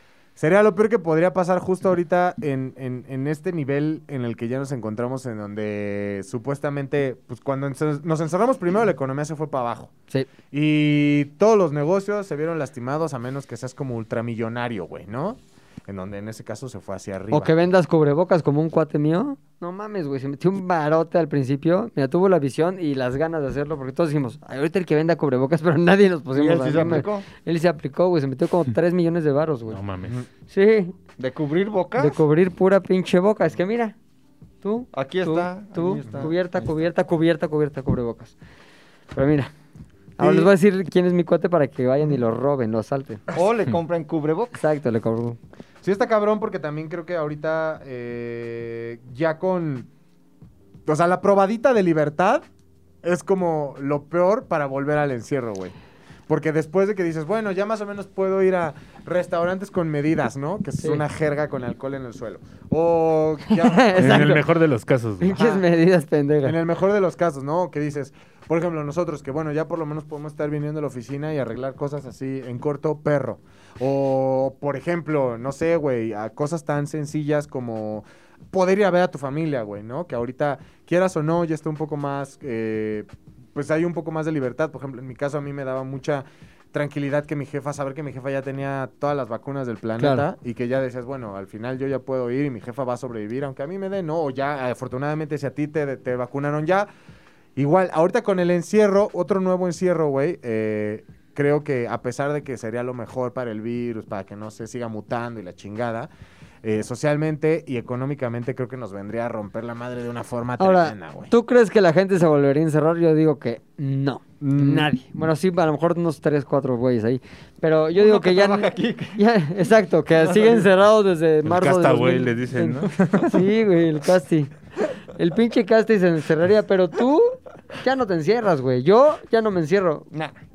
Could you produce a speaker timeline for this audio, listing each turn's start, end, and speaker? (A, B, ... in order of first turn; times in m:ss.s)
0:00.4-0:09.9 A
0:10.5-0:17.5 A
0:17.3-0:29.8 B
0:26.4-0:27.3 C
0:29.7-0:30.2 D
0:30.5-0:30.9 B
0:31.2-0:32.2 C
0:32.0-0:34.0 B
0:34.6-0:38.4 B
0:34.9-0:36.8 C
0:39.1-0:39.5 B
0:40.2-0:43.2 B
0:40.2-0:40.5 A
0:43.3-0:44.6 C
0:44.5-0:45.4 B
0:45.8-0:49.9 A
0:50.9-0:52.4 A
0:53.0-0:55.7 A
0:56.3-1:04.4 A
1:03.5-1:04.4 B
1:04.0-1:05.4 D
1:05.2-1:06.6 B
1:05.3-1:05.7 A
1:06.4-1:36.9 A
1:30.0-1:30.3 B
1:37.6-1:46.1 A
1:46.6-1:51.3 A
1:50.6-2:04.5 B
1:54.4-1:54.9 A
1:58.0-1:59.2 C
2:00.2-2:00.7 C
2:01.4-2:03.4 D
2:05.2-2:10.1 B